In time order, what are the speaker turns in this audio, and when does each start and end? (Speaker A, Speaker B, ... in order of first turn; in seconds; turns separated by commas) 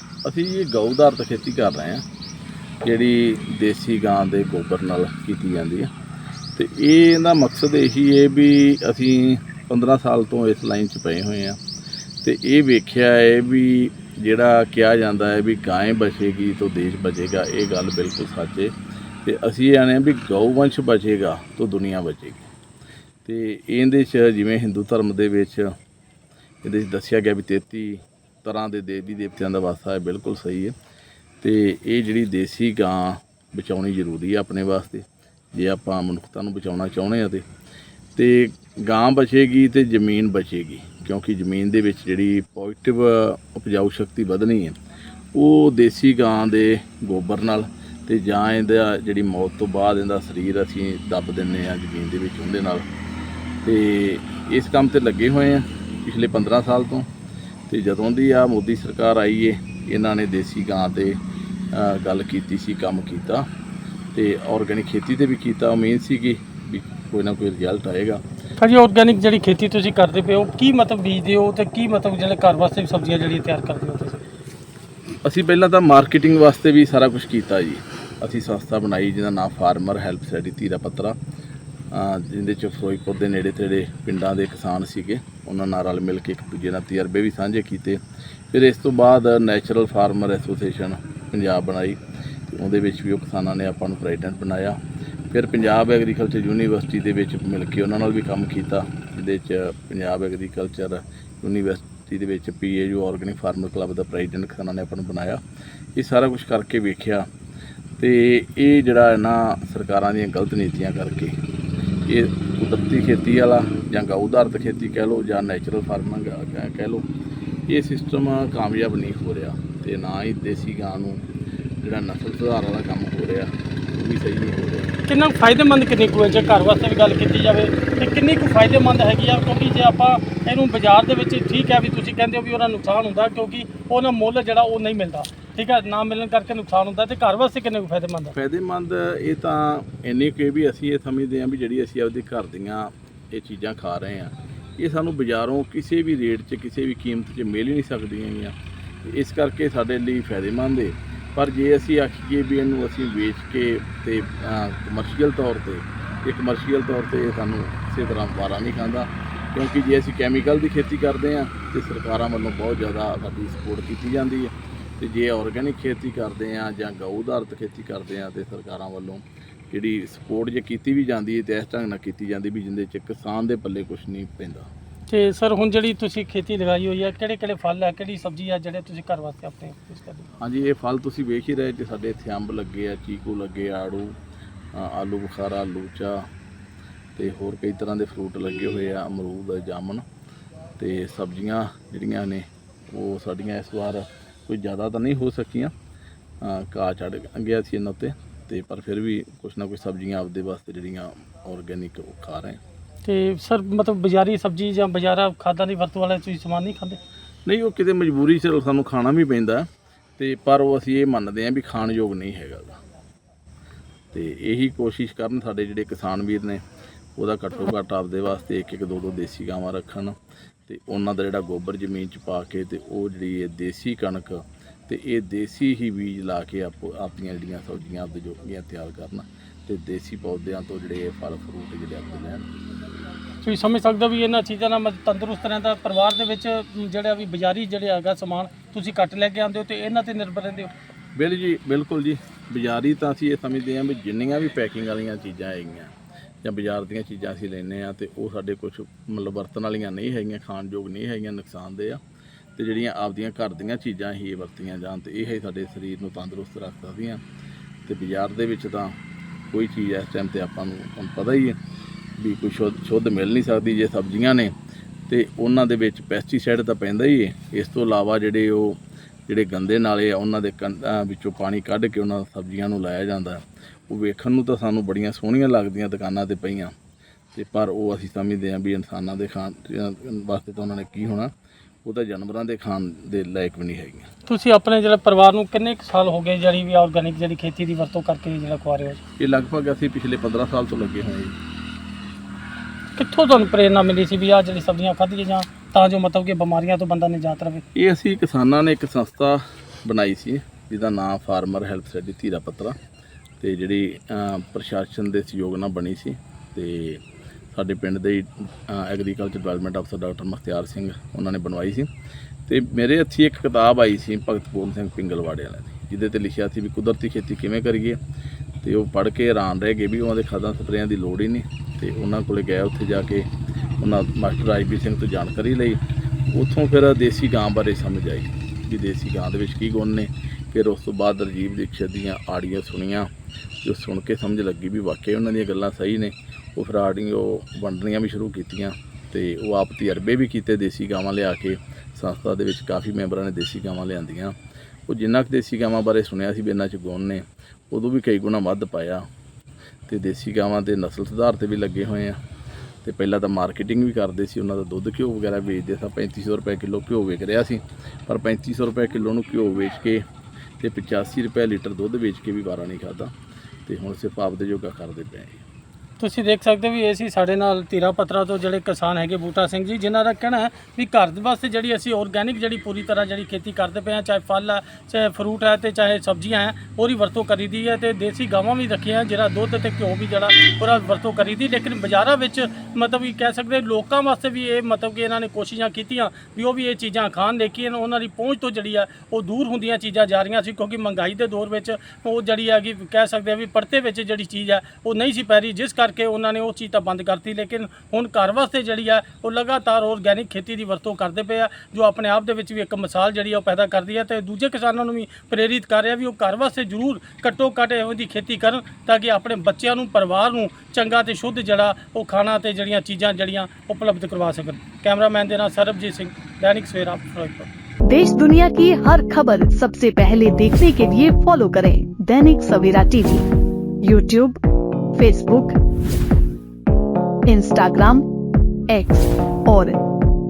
Speaker A: 0.2-2.0, Speaker A: 2.8-5.9, Speaker A: 6.6-11.6, Speaker A: 12.2-18.7, Speaker A: 19.2-22.5, Speaker A: 23.2-25.7, Speaker A: 26.6-30.7, Speaker A: 31.4-37.4, Speaker A: 38.2-44.8, Speaker A: 45.4-52.9, Speaker A: 53.6-57.1, Speaker A: 57.7-61.2, Speaker A: 61.7-63.5, Speaker A: 64.1-68.2, Speaker B: 68.6-74.2, Speaker A: 75.2-81.2, Speaker A: 81.9-92.0, Speaker A: 92.5-94.8, Speaker A: 95.3-105.4, Speaker A: 106.0-107.3, Speaker A: 108.0-111.4, Speaker A: 112.1-117.1, Speaker A: 117.7-121.2, Speaker A: 121.8-124.9, Speaker B: 125.1-138.4, Speaker A: 138.4-174.7, Speaker B: 175.1-180.3, Speaker A: 180.4-184.2, Speaker A: 184.7-186.3, Speaker A: 187.2-190.0, Speaker A: 190.8-195.7, Speaker A: 196.4-202.6, Speaker B: 203.1-207.0, Speaker A: 207.5-209.7, Speaker A: 210.2-212.8, Speaker A: 214.1-216.6, Speaker A: 217.2-232.5, Speaker B: 233.4-240.7, Speaker A: 241.2-252.0, Speaker A: 252.6-257.2, Speaker A: 257.9-258.9, Speaker A: 259.5-261.6, Speaker A: 262.2-264.5, Speaker A: 265.1-276.7, Speaker A: 277.3-281.3, Speaker A: 281.9-284.1, Speaker B: 284.3-289.0, Speaker A: 289.2-291.4, Speaker B: 293.0-297.6, Speaker A: 297.8-302.8, Speaker A: 303.4-307.0, Speaker A: 307.5-311.9, Speaker A: 312.5-318.0, Speaker A: 318.6-323.3, Speaker A: 323.8-333.1, Speaker A: 333.6-344.4, Speaker A: 344.9-349.1, Speaker A: 349.9-352.2, Speaker A: 352.8-360.0, Speaker A: 360.6-363.1, Speaker A: 363.7-365.4, Speaker B: 366.0-417.5, Speaker C: 417.9-423.3, Speaker C: 423.8-424.4, Speaker C: 424.9-425.6, Speaker C: 427.3-428.1, Speaker C: 428.7-429.8